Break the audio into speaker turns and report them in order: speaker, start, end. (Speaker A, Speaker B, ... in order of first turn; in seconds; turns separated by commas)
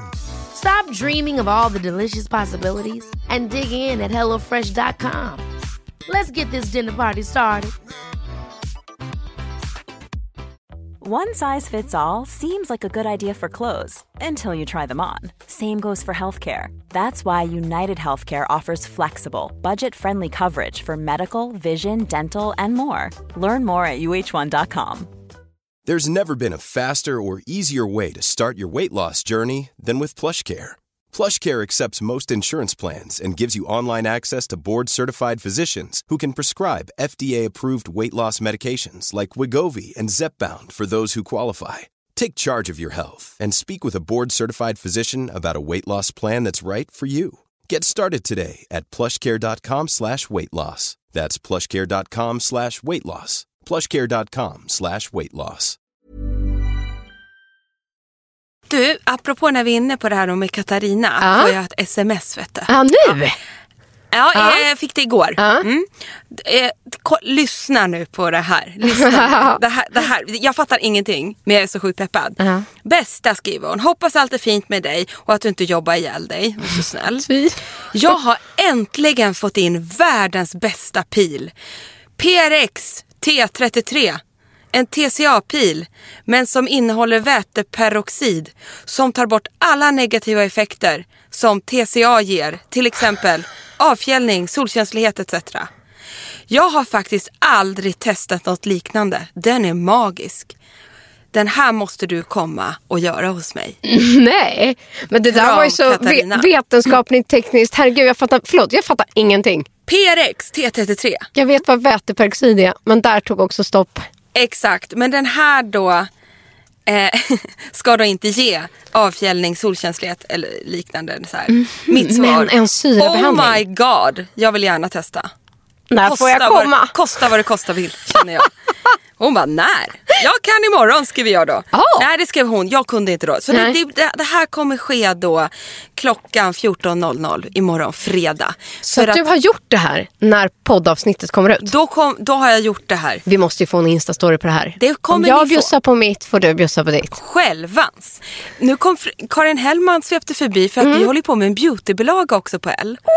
Speaker A: 0.5-5.5, Speaker A: 6.0-7.7, Speaker B: 11.0-25.1, Speaker C: 25.9-55.8, Speaker D: 58.7-62.7, Speaker E: 61.2-61.5, Speaker E: 62.7-63.4, Speaker D: 64.1-77.3, Speaker E: 64.3-64.6, Speaker E: 65.4-65.7, Speaker E: 68.8-69.6, Speaker E: 72.4-72.7, Speaker E: 77.2-77.6, Speaker D: 77.9-81.5, Speaker D: 82.2-84.2, Speaker D: 84.7-95.7, Speaker D: 96.5-100.5, Speaker D: 101.3-103.8, Speaker E: 103.8-109.7, Speaker D: 105.3-106.5, Speaker D: 109.9-111.3, Speaker E: 111.3-114.1, Speaker D: 114.3-116.1, Speaker D: 116.9-125.3, Speaker E: 121.5-123.6, Speaker E: 125.9-126.9, Speaker D: 126.0-128.5, Speaker E: 128.1-128.5, Speaker D: 129.2-139.2, Speaker E: 131.7-132.1, Speaker E: 133.5-133.8, Speaker E: 138.8-141.7, Speaker D: 141.6-143.2, Speaker E: 143.2-147.2, Speaker D: 144.8-145.7, Speaker D: 147.1-153.0, Speaker E: 150.8-151.1